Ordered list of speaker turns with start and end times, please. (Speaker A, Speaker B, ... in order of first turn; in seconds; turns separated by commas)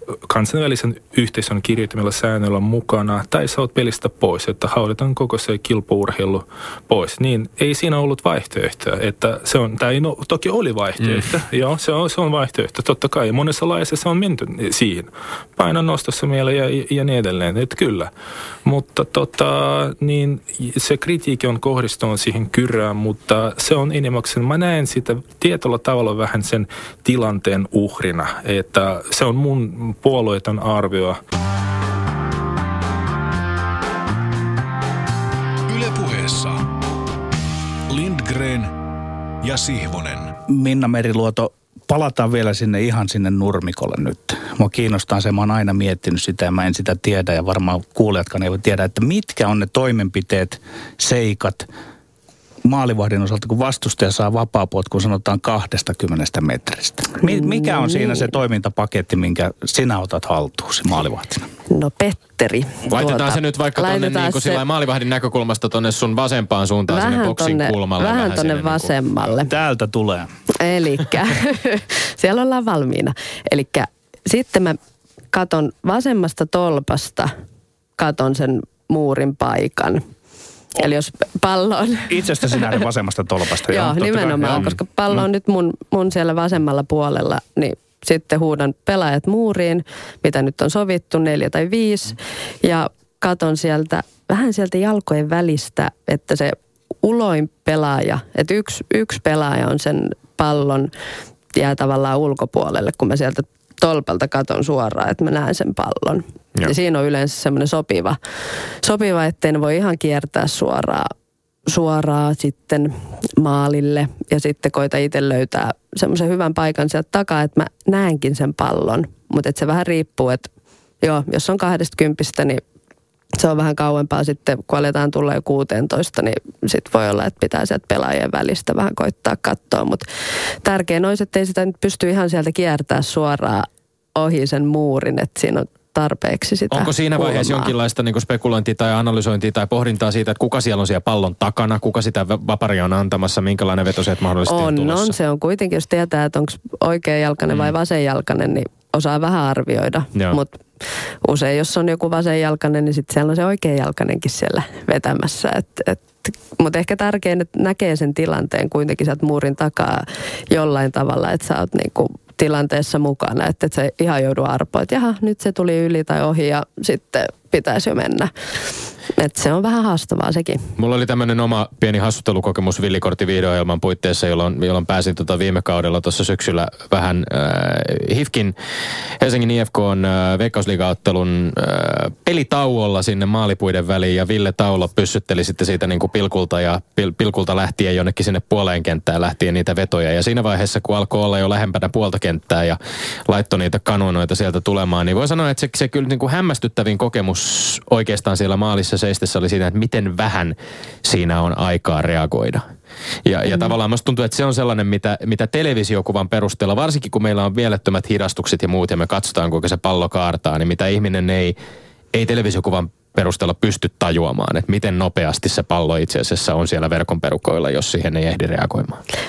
Speaker A: 0.3-18.1, Speaker A: 18.6-31.2, Speaker B: 35.7-36.7, Speaker B: 37.9-38.7, Speaker B: 39.4-40.3, Speaker C: 40.5-51.7, Speaker C: 52.6-61.5, Speaker D: 57.2-58.3, Speaker D: 61.7-64.6, Speaker E: 62.9-68.9, Speaker D: 66.9-69.5, Speaker C: 69.4-70.3, Speaker D: 70.5-74.8, Speaker D: 75.3-77.3, Speaker D: 78.0-80.0, Speaker D: 80.7-82.8, Speaker C: 82.1-84.8, Speaker D: 83.7-100.9, Speaker D: 101.5-108.2, Speaker D: 108.8-111.1, Speaker D: 111.7-120.5, Speaker D: 121.0-122.6, Speaker D: 123.4-130.0, Speaker D: 130.6-137.7, Speaker E: 136.7-145.1, Speaker D: 144.4-150.6, Speaker D: 151.2-168.3, Speaker D: 169.1-170.6, Speaker E: 170.8-178.6, Speaker E: 179.2-202.7, Speaker E: 203.2-211.6, Speaker D: 203.5-203.7, Speaker E: 212.1-219.0